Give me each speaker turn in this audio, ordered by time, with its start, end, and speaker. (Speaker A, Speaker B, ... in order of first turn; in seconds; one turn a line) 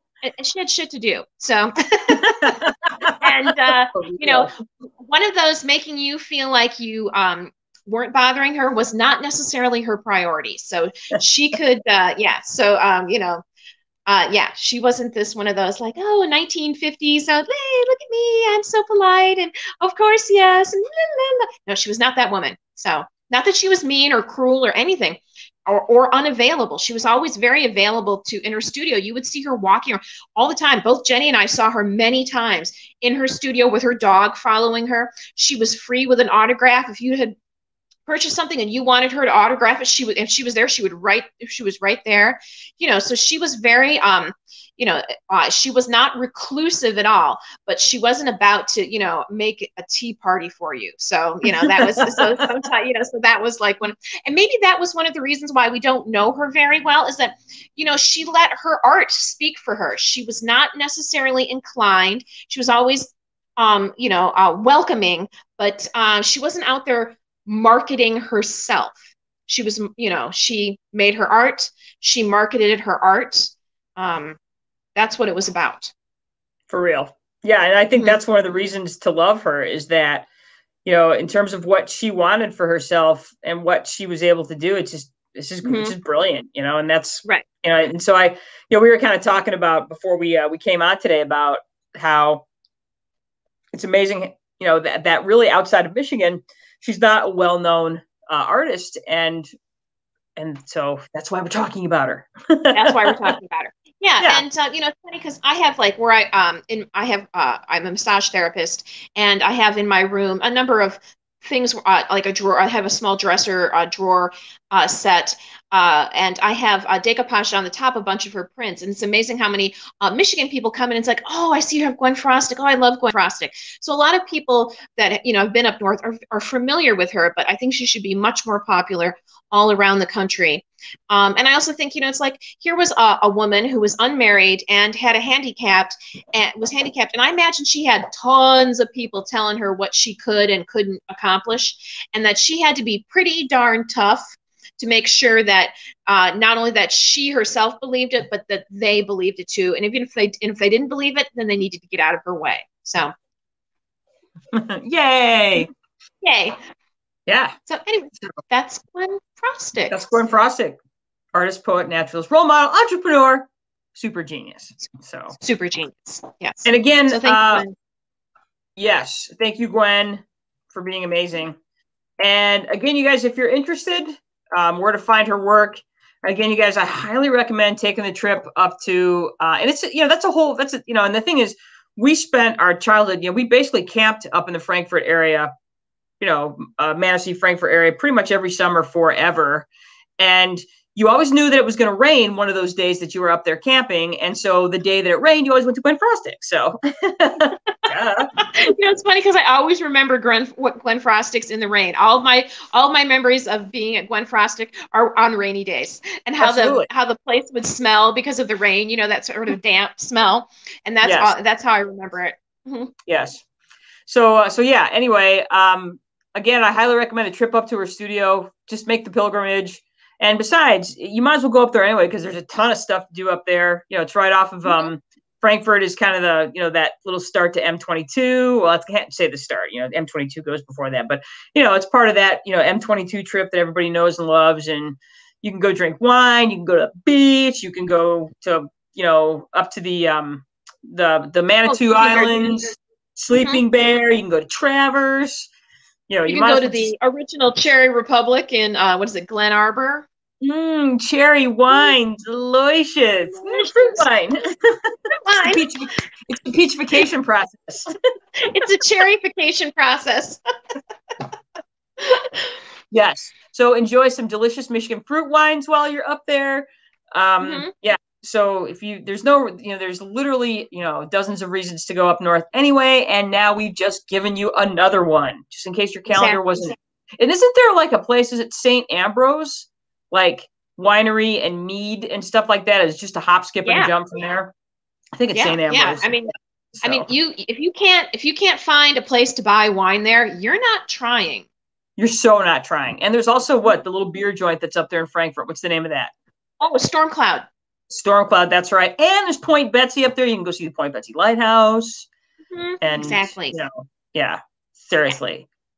Speaker A: 0.2-2.5
Speaker B: 2.1-3.2
Speaker A: 3.2-13.4
Speaker B: 3.9-4.5
Speaker A: 14.1-37.4
Speaker A: 38.1-74.4
Speaker B: 51.6-52.3
Speaker A: 75.0-75.9
Speaker B: 76.7-80.3
Speaker B: 80.8-92.5
Speaker A: 85.6-85.9
Speaker B: 93.7-99.5
Speaker B: 100.4-103.3
Speaker A: 102.7-153.1
Speaker B: 154.5-155.7
Speaker A: 156.2-156.6
Speaker B: 157.3-157.6
Speaker A: 157.7-160.0
Speaker B: 159.9-160.8
Speaker B: 161.3-165.4
Speaker A: 165.4-167.8
Speaker B: 166.7-167.7
Speaker B: 168.8-171.6
Speaker B: 172.2-185.5
Speaker B: 186.2-189.7
Speaker B: 190.2-198.3
Speaker A: 198.4-212.9
Speaker B: 206.4-206.9
Speaker B: 211.0-211.3
Speaker B: 213.1-213.4
Speaker B: 214.1-245.5
Speaker A: 241.7-242.5
Speaker A: 243.4-243.6
Speaker B: 246.1-246.9
Speaker A: 246.3-250.1
Speaker B: 250.4-257.9
Speaker A: 253.3-254.1
Speaker A: 255.1-255.7
Speaker A: 258.4-260.4
Speaker A: 262.0-262.5
Speaker B: 262.9-284.5
Speaker A: 267.4-267.7
Speaker A: 276.1-276.7
Speaker A: 283.6-283.9
Speaker B: 285.2-286.1
Speaker A: 285.3-286.3
Speaker B: 286.8-287.1
Speaker A: 286.8-291.5
Speaker B: 292.0-296.1
Speaker A: 296.6-297.5
Speaker B: 297.9-302.1
Speaker A: 302.5-303.6
Speaker B: 302.8-305.5